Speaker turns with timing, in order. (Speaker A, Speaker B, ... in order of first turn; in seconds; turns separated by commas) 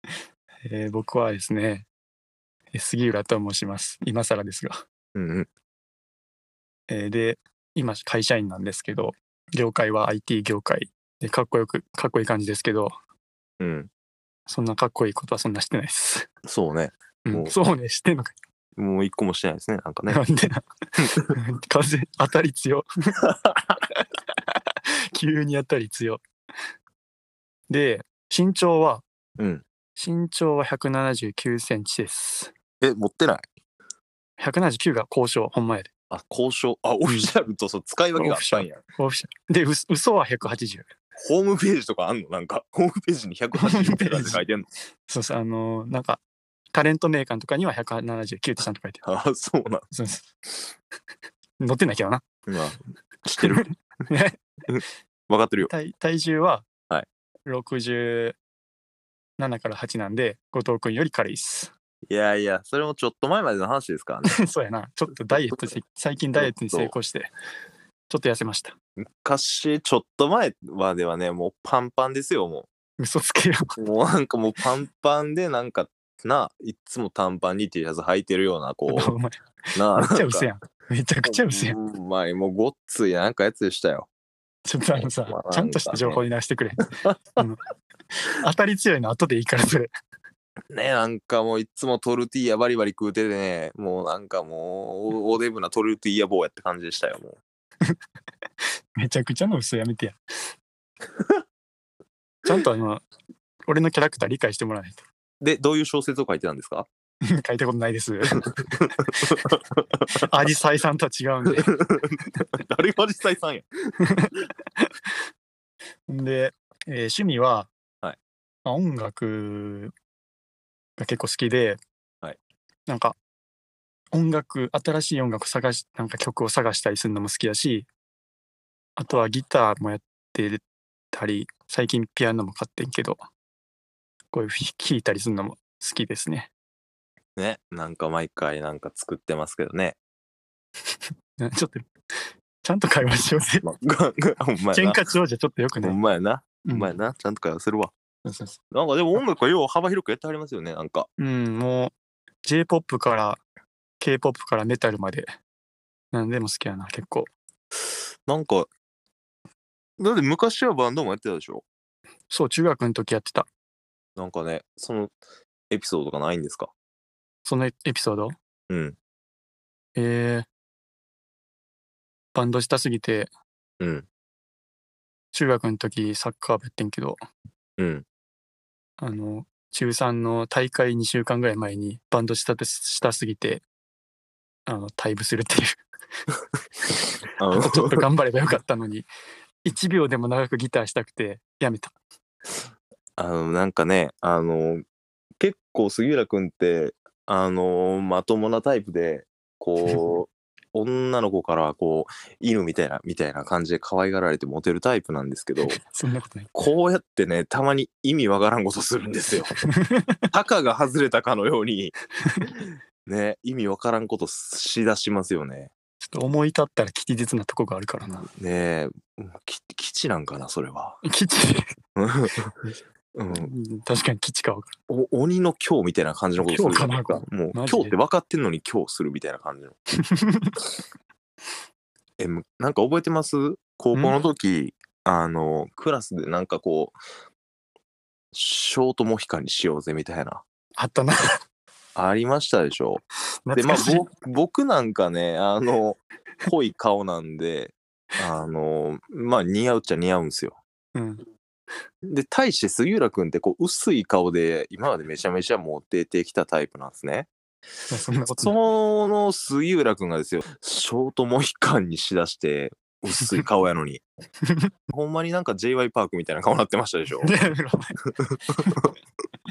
Speaker A: 0.6-1.9, Speaker A: 2.7-4.8, Speaker B: 5.1-5.5, Speaker A: 6.9-13.0, Speaker B: 13.6-13.9, Speaker A: 14.5-16.3, Speaker B: 16.4-17.5, Speaker A: 17.2-18.3, Speaker B: 18.8-20.2, Speaker A: 20.1-23.2, Speaker B: 21.0-21.3, Speaker A: 25.1-26.2, Speaker A: 27.7-29.1, Speaker B: 29.4-29.6, Speaker A: 29.9-32.5, Speaker B: 32.8-33.5, Speaker A: 34.4-35.9, Speaker B: 36.1-38.8, Speaker A: 38.1-40.9, Speaker B: 41.2-44.6, Speaker A: 43.5-44.4, Speaker A: 45.1-46.2, Speaker A: 46.7-49.0, Speaker B: 49.0-49.9, Speaker A: 49.9-50.3, Speaker A: 51.6-52.2, Speaker B: 52.5-53.7, Speaker A: 53.4-54.4, Speaker B: 54.7-55.7, Speaker A: 55.6-56.7, Speaker A: 57.5-58.4, Speaker A: 59.4-61.7, Speaker B: 62.1-64.4, Speaker A: 64.2-67.3, Speaker B: 65.3-65.7, Speaker B: 66.3-66.9, Speaker A: 68.1-68.7, Speaker B: 69.0-72.7, Speaker A: 73.0-73.8, Speaker B: 73.8-79.1, Speaker A: 78.9-81.8, Speaker B: 79.7-80.5, Speaker B: 81.2-84.1, Speaker A: 84.7-87.6, Speaker B: 84.9-86.2, Speaker A: 88.2-89.9, Speaker B: 90.7-97.4, Speaker A: 99.0-100.5, Speaker A: 102.4-103.0, Speaker A: 103.7-105.0, Speaker B: 105.4-106.9, Speaker A: 107.2-108.5, Speaker B: 108.4-110.3, Speaker A: 110.2-111.8, Speaker B: 111.5-113.7, Speaker A: 114.0-114.9, Speaker A: 116.1-117.7, Speaker A: 118.6-119.9, Speaker A: 121.0-121.8, Speaker A: 122.9-123.2, Speaker A: 124.1-127.9, Speaker A: 128.9-133.2, Speaker A: 134.3-136.5, Speaker B: 137.3-140.0, Speaker A: 141.4-141.9, Speaker A: 142.6-143.7, Speaker B: 143.6-145.0, Speaker A: 144.7-146.0, Speaker B: 145.8-147.9, Speaker A: 146.6-146.9, Speaker A: 148.2-148.6, Speaker B: 148.7-151.1, Speaker A: 151.2-151.9, Speaker A: 152.4-153.4, Speaker A: 154.0-155.3, Speaker A: 156.1-157.3, Speaker B: 158.2-158.7, Speaker B: 160.0-161.6, Speaker A: 162.3-163.5, Speaker B: 164.2-165.1, Speaker B: 165.7-166.7, Speaker A: 167.4-168.3, Speaker B: 168.7-168.9, Speaker A: 169.9-170.5, Speaker A: 172.3-173.3, Speaker B: 173.8-174.1, Speaker A: 175.3-177.2, Speaker B: 177.8-178.0, Speaker A: 179.0-183.6, Speaker A: 184.7-185.8, Speaker A: 187.0-189.1, Speaker B: 187.4-188.1, Speaker A: 189.6-191.9, Speaker B: 193.2-194.8, Speaker B: 195.4-205.8, Speaker A: 205.6-206.5, Speaker B: 206.5-209.6, Speaker A: 209.6-210.3, Speaker B: 210.3-211.9, Speaker A: 212.2-212.5, Speaker B: 213.1-215.7, Speaker A: 216.0-218.3, Speaker B: 218.2-221.0, Speaker A: 221.0-221.7, Speaker B: 221.9-222.5, Speaker B: 223.1-223.5, Speaker A: 223.3-224.7, Speaker B: 224.9-229.8, Speaker A: 226.4-227.9, Speaker A: 230.0-230.6, Speaker B: 232.2-237.0, Speaker B: 238.3-240.4, Speaker A: 240.8-241.2, Speaker B: 241.9-243.0, Speaker A: 243.4-244.1, Speaker B: 243.5-250.6, Speaker A: 250.9-251.2, Speaker B: 252.0-257.3, Speaker A: 257.9-258.5, Speaker B: 258.3-264.0, Speaker A: 263.2-263.5, Speaker A: 264.4-264.7, Speaker B: 264.9-267.3, Speaker A: 267.2-268.0, Speaker B: 268.2-268.9, Speaker A: 268.6-268.9